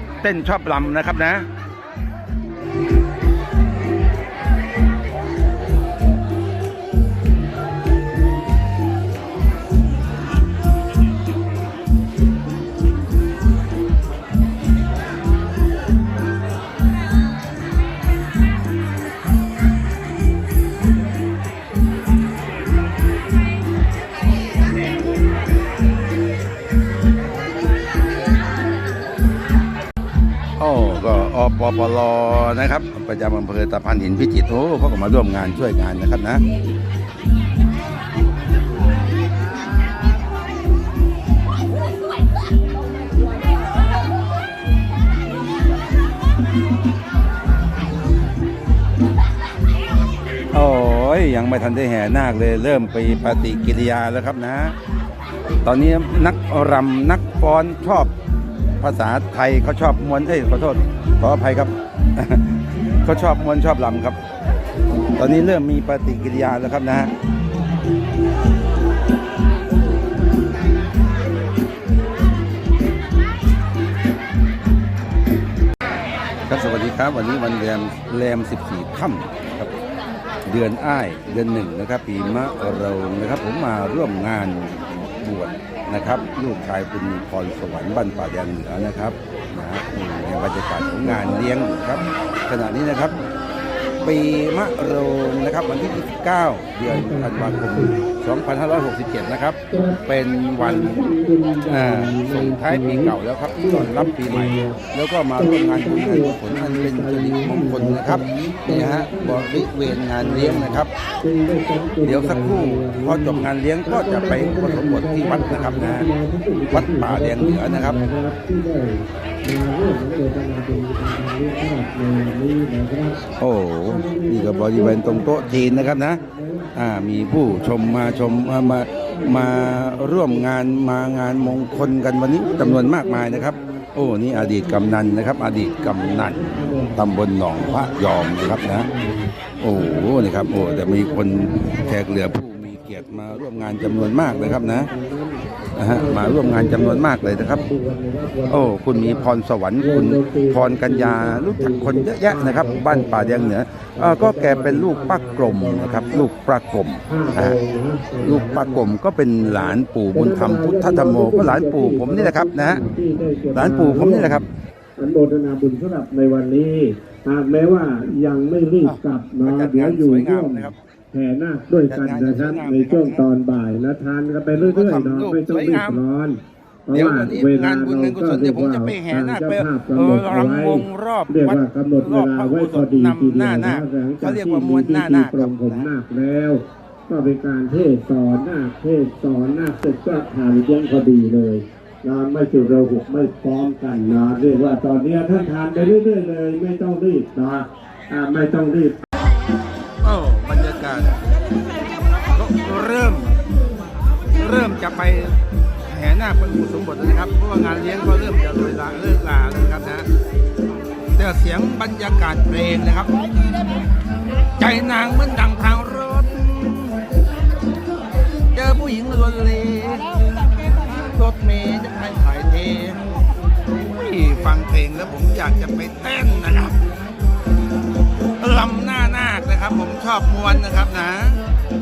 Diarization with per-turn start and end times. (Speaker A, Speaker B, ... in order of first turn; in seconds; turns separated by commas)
Speaker A: 0.2-1.4, Speaker A: 30.6-36.4, Speaker A: 50.5-54.7, Speaker A: 55.6-58.1, Speaker A: 58.8-64.2, Speaker A: 65.2-67.1, Speaker A: 76.5-79.7, Speaker A: 80.5-93.2, Speaker A: 94.0-101.0, Speaker B: 96.8-98.0, Speaker B: 99.7-100.0, Speaker B: 100.6-104.8, Speaker A: 101.7-110.9, Speaker B: 105.4-123.2, Speaker A: 112.0-116.1, Speaker A: 116.7-118.0, Speaker A: 123.4-126.2, Speaker B: 123.8-156.3, Speaker A: 126.7-136.4, Speaker A: 137.0-138.9, Speaker A: 139.6-144.9, Speaker A: 145.8-147.7, Speaker A: 148.5-157.6, Speaker B: 157.1-164.4, Speaker A: 158.2-162.8, Speaker A: 163.5-164.4, Speaker B: 165.0-199.0, Speaker A: 168.8-170.8, Speaker A: 171.9-173.3, Speaker A: 174.5-176.0, Speaker A: 176.9-185.9, Speaker A: 200.0-201.2, Speaker A: 202.3-203.3, Speaker A: 204.4-210.1, Speaker A: 211.2-213.1, Speaker A: 214.6-217.0, Speaker A: 218.5-223.0, Speaker A: 223.8-226.8, Speaker A: 228.4-231.4